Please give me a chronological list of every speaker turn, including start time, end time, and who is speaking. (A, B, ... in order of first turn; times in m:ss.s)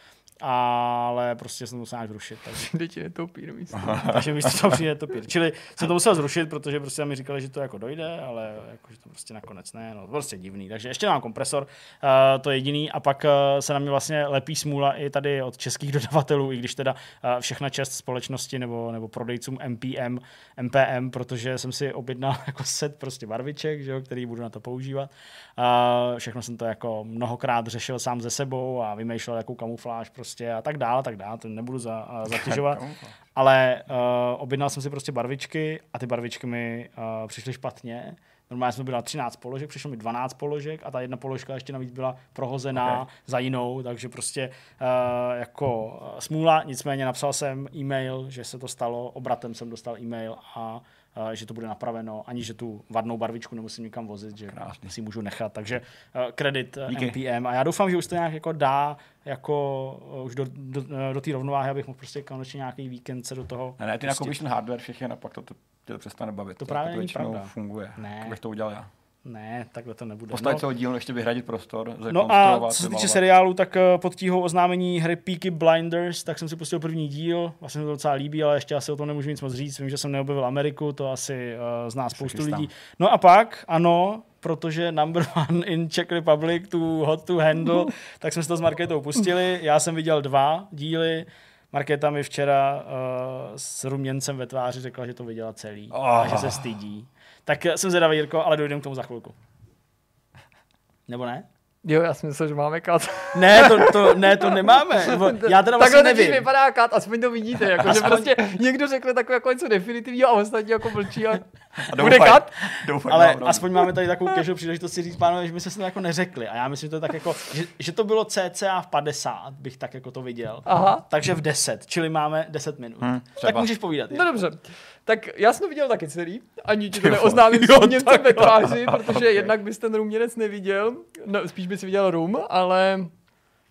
0:00.4-0:02.7 A
0:02.6-0:04.0 B
0:03.8-0:04.8 C
0:03.9-0:32.8 A
0:32.3-0:33.1 C
0:33.4-1:04.4 A
0:42.7-0:43.0 C
0:54.5-0:54.9 C
0:56.9-0:57.2 C
1:03.8-1:08.9 C
1:06.6-1:08.4 A
1:09.2-1:10.6 A
1:10.3-1:13.2 C
1:12.1-1:39.3 A
1:22.2-1:22.7 C
1:35.9-1:36.6 C
1:41.1-1:41.4 A
1:41.8-1:52.6 B
1:43.3-1:46.4 A
1:47.8-1:48.3 A
1:51.8-1:53.7 C
1:53.1-2:04.2 A
2:00.7-2:01.0 B
2:03.0-2:03.7 C
2:04.1-2:13.1 B
2:06.9-2:09.5 C